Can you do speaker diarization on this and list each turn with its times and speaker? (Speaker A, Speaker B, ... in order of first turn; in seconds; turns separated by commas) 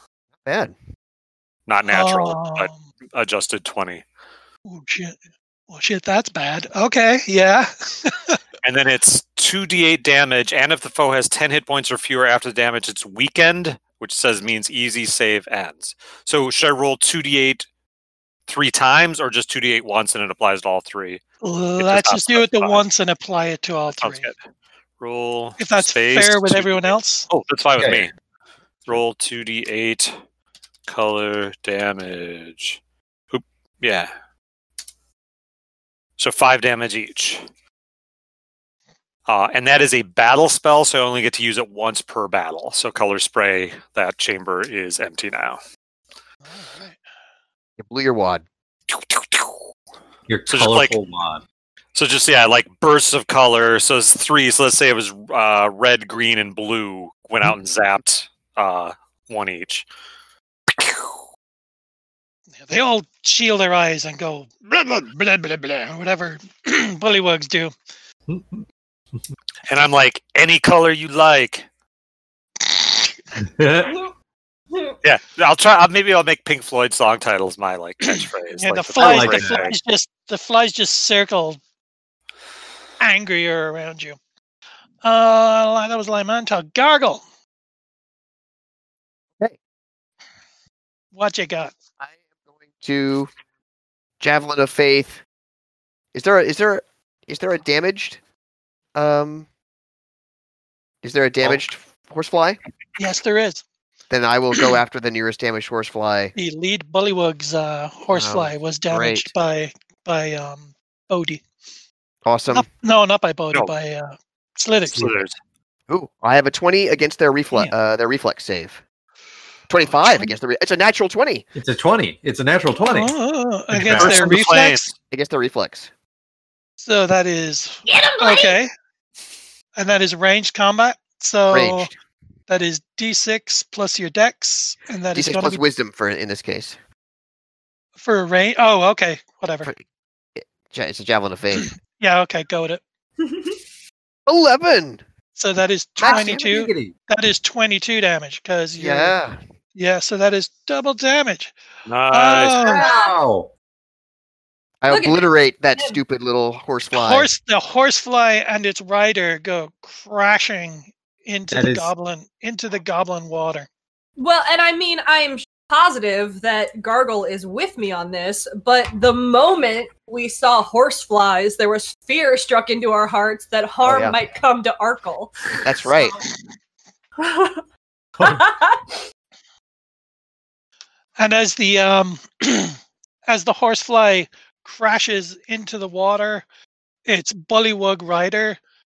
Speaker A: 0.4-0.8, Speaker B: 1.7-4.0, Speaker C: 1.9-2.9, Speaker C: 4.7-5.2, Speaker C: 5.7-8.4, Speaker B: 8.6-17.7, Speaker B: 18.5-21.2, Speaker C: 21.4-24.3, Speaker B: 21.8-22.9, Speaker B: 23.9-24.4, Speaker B: 25.0-28.1, Speaker C: 25.6-27.3, Speaker D: 27.8-28.1, Speaker B: 28.9-30.1, Speaker B: 30.9-32.8, Speaker B: 33.3-34.1, Speaker B: 36.2-37.4, Speaker B: 39.3-45.6, Speaker C: 46.4-47.0, Speaker A: 47.8-48.5, Speaker B: 48.9-49.6, Speaker D: 50.3-51.4, Speaker B: 50.5-51.0, Speaker B: 52.0-59.9, Speaker B: 60.7-61.1, Speaker C: 62.6-67.7, Speaker D: 68.3-68.7, Speaker B: 69.7-71.7, Speaker D: 73.4-73.9, Speaker B: 75.0-79.8, Speaker C: 78.1-81.6, Speaker D: 79.0-79.6, Speaker C: 83.0-84.2, Speaker C: 85.0-87.2, Speaker C: 91.1-91.7, Speaker A: 92.0-93.3, Speaker A: 94.2-95.2, Speaker A: 96.1-98.2, Speaker A: 99.0-99.5, Speaker A: 101.0-102.6, Speaker C: 103.0-103.6, Speaker A: 104.1-106.3, Speaker C: 106.4-111.4, Speaker A: 108.1-109.3, Speaker A: 112.2-112.7, Speaker C: 112.5-115.1, Speaker B: 114.9-115.3, Speaker A: 115.9-118.8, Speaker A: 119.7-121.5, Speaker C: 119.9-120.3, Speaker D: 121.6-123.1, Speaker C: 122.8-124.9, Speaker D: 123.7-124.3, Speaker B: 123.9-124.9, Speaker A: 125.1-125.9, Speaker C: 126.8-128.7, Speaker E: 127.9-128.5, Speaker C: 129.8-131.9, Speaker A: 131.5-131.9, Speaker C: 132.5-135.6, Speaker A: 135.1-136.8, Speaker C: 138.0-139.7, Speaker A: 140.4-141.7, Speaker C: 141.6-142.8, Speaker E: 143.2-143.6, Speaker A: 144.3-145.0, Speaker C: 145.4-149.2, Speaker A: 146.0-146.5, Speaker D: 146.1-147.0, Speaker A: 148.8-149.4, Speaker C: 149.8-151.6, Speaker B: 151.9-152.7, Speaker C: 152.1-152.9, Speaker E: 152.6-153.2, Speaker D: 152.8-153.5, Speaker A: 154.8-157.3, Speaker E: 154.9-156.0, Speaker C: 156.9-163.7, Speaker D: 161.5-161.9, Speaker E: 164.2-175.5, Speaker A: 173.8-174.2, Speaker A: 175.6-176.2, Speaker E: 177.2-177.6, Speaker D: 178.2-178.4, Speaker E: 178.2-178.9, Speaker C: 181.2-186.4, Speaker C: 187.1-188.6